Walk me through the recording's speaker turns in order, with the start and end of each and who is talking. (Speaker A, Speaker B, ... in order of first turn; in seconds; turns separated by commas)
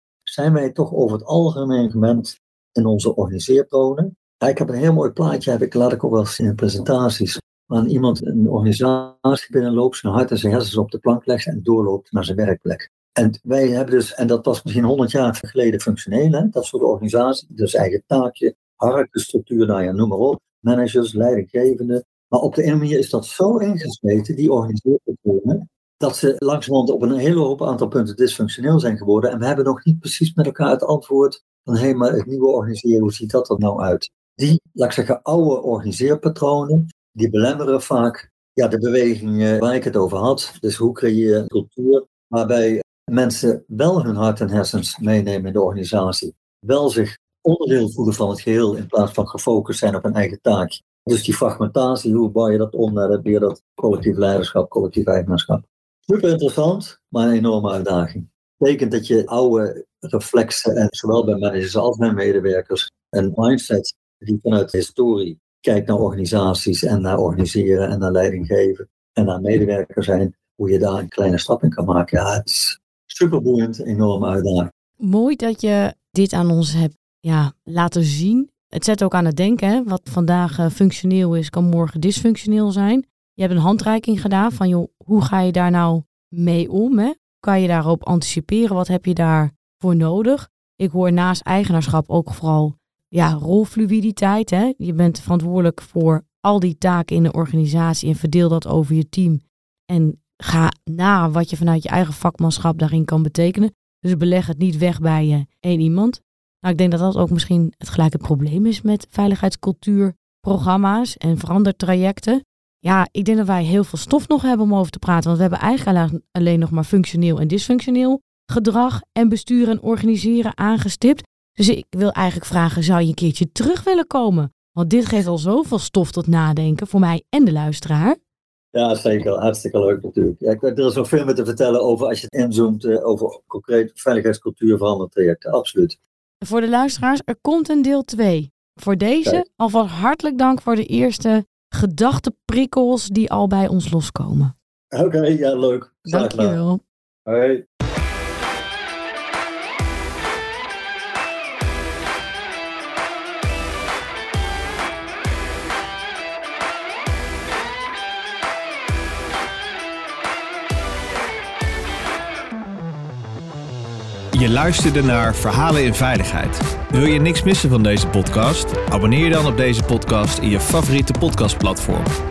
Speaker A: 0.2-74.7, Speaker B: 75.0-128.2, Speaker A: 128.7-136.0, Speaker B: 136.4-144.5, Speaker A: 144.9-146.6, Speaker B: 146.1-146.8, Speaker A: 147.2-147.6, Speaker C: 164.3-172.1